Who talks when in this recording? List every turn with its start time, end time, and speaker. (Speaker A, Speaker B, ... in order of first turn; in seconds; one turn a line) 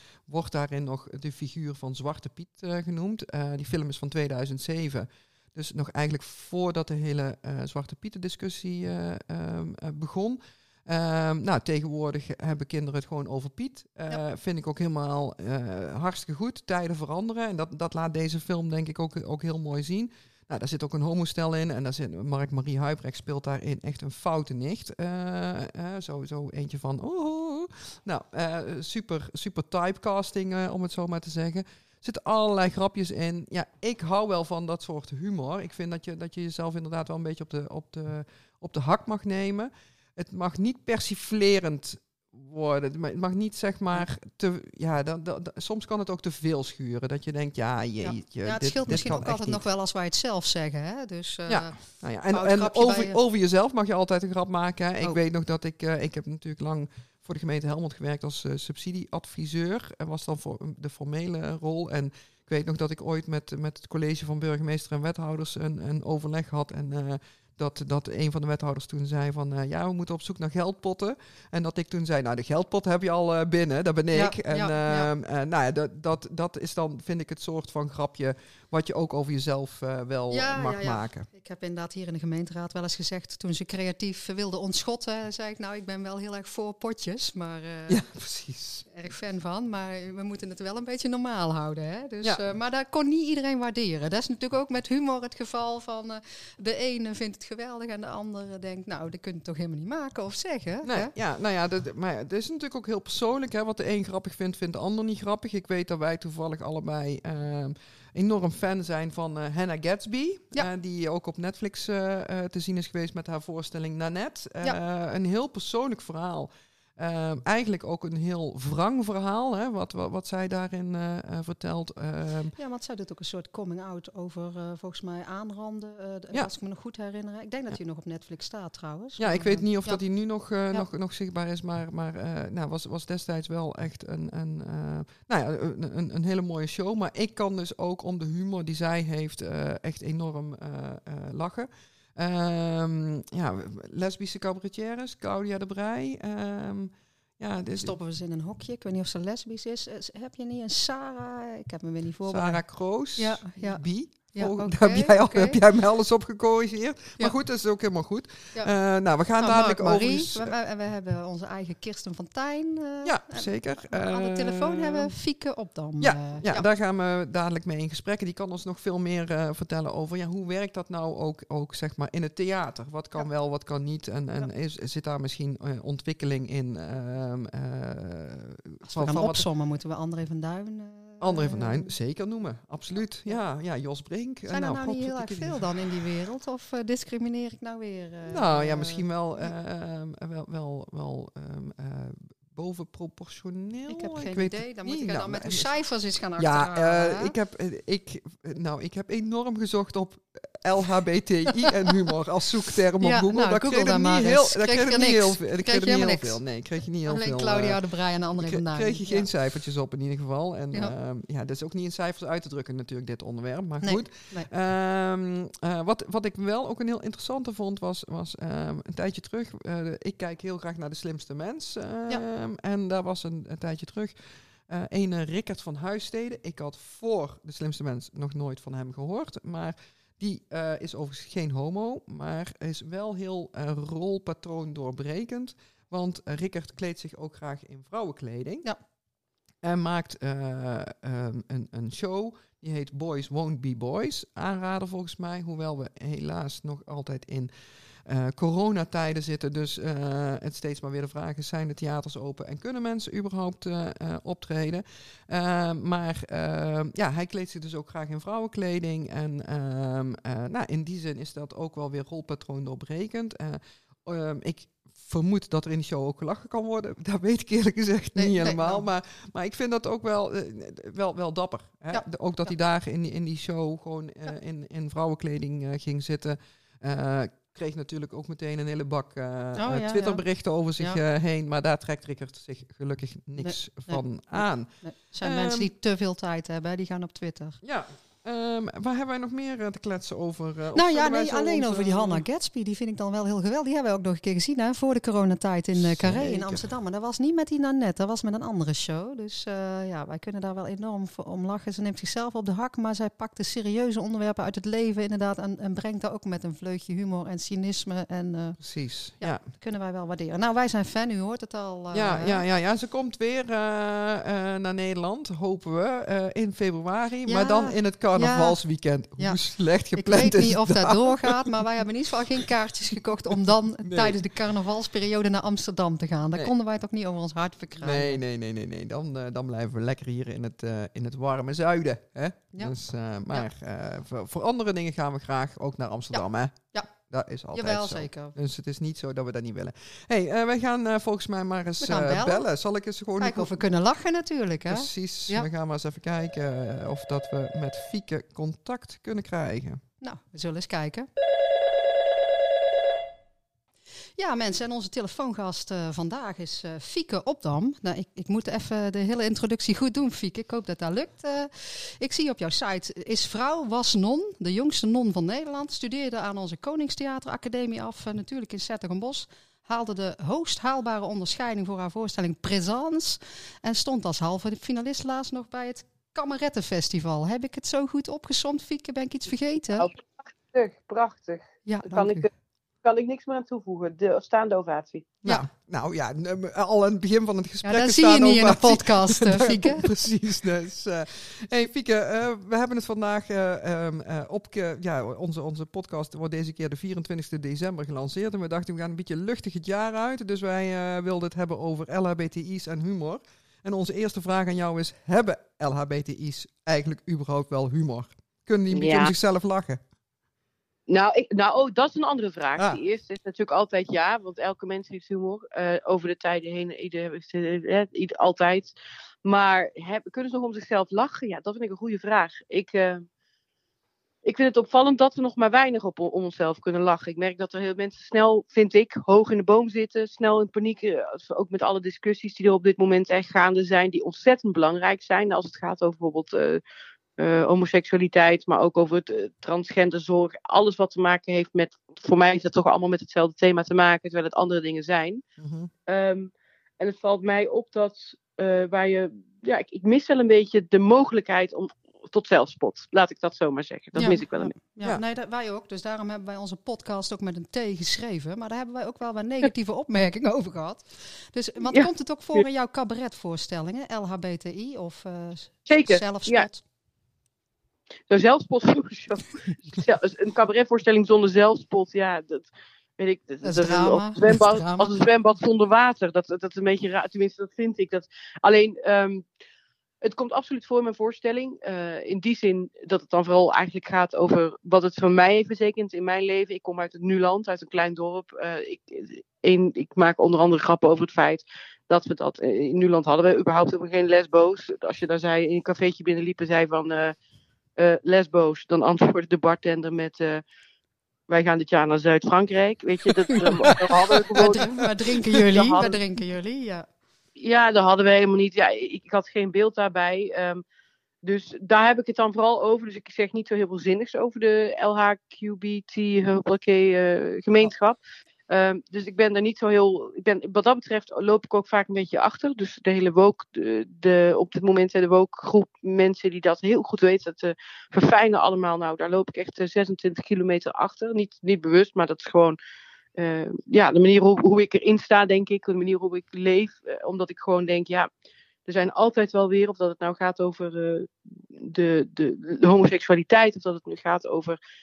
Speaker A: 0.3-49.6
Speaker B: 48.0-53.2
Speaker A: 51.5-81.2
Speaker B: 74.1-75.1
Speaker B: 80.3-88.0
Speaker A: 87.9-88.9
Speaker B: 88.9-101.1
Speaker A: 100.8-122.5
Speaker B: 122.5-130.0
Speaker A: 129.2-147.9
Speaker B: 147.8-152.6
Speaker A: 152.3-160.5
Speaker B: 153.2-155.6
Speaker B: 159.4-166.6
Speaker A: 163.0-165.1
Speaker A: 166.0-179.4
Speaker B: 178.8-181.9
Speaker A: 181.2-186.1
Speaker B: 184.5-189.5
Speaker A: 188.3-195.7
Speaker B: 193.9-197.3
Speaker A: 196.4-207.8
Speaker B: 201.6-201.9
Speaker B: 203.0-206.4
Speaker B: 207.0-209.3
Speaker A: 208.4-224.2
Speaker B: 213.8-214.5
Speaker A: 224.7-238.7
Speaker A: 239.6-247.5
Speaker A: 248.0-285.7
Speaker B: 268.1-268.8
Speaker B: 279.6-280.2
Speaker B: 283.4-287.6
Speaker A: 287.6-292.2
Speaker B: 290.7-308.6
Speaker A: 295.7-296.7
Speaker A: 308.6-309.4
Speaker B: 309.2-312.4
Speaker A: 311.9-321.5
Speaker B: 317.2-318.6
Speaker B: 319.9-328.2
Speaker A: 323.8-324.2
Speaker A: 327.8-343.5
Speaker B: 336.1-336.9
Speaker B: 337.5-338.3
Speaker B: 341.8-342.4
Speaker B: 343.2-345.5
Speaker A: 344.7-349.8
Speaker B: 350.0-351.1
Speaker B: 354.2-379.9
Speaker C: 379.8-382.3
Speaker B: 381.6-382.3
Speaker C: 382.8-385.1
Speaker A: 385.2-409.8
Speaker B: 387.6-389.9
Speaker C: 408.7-409.1
Speaker C: 410.9-418.7
Speaker C: 419.2-423.1
Speaker C: 424.2-436.6
Speaker C: 437.2-445.2
Speaker A: 445.4-445.7
Speaker C: 445.9-454.5
Speaker B: 454.0-466.6
Speaker C: 461.7-462.4
Speaker C: 465.7-466.5
Speaker C: 468.1-479.2
Speaker B: 473.4-475.0
Speaker C: 480.0-497.1
Speaker C: 497.8-500.4
Speaker C: 501.3-506.0
Speaker B: 503.3-506.9
Speaker C: 507.4-510.6
Speaker C: 511.2-518.0
Speaker C: 518.5-532.6
Speaker C: 533.2-538.1
Speaker C: 538.6-544.6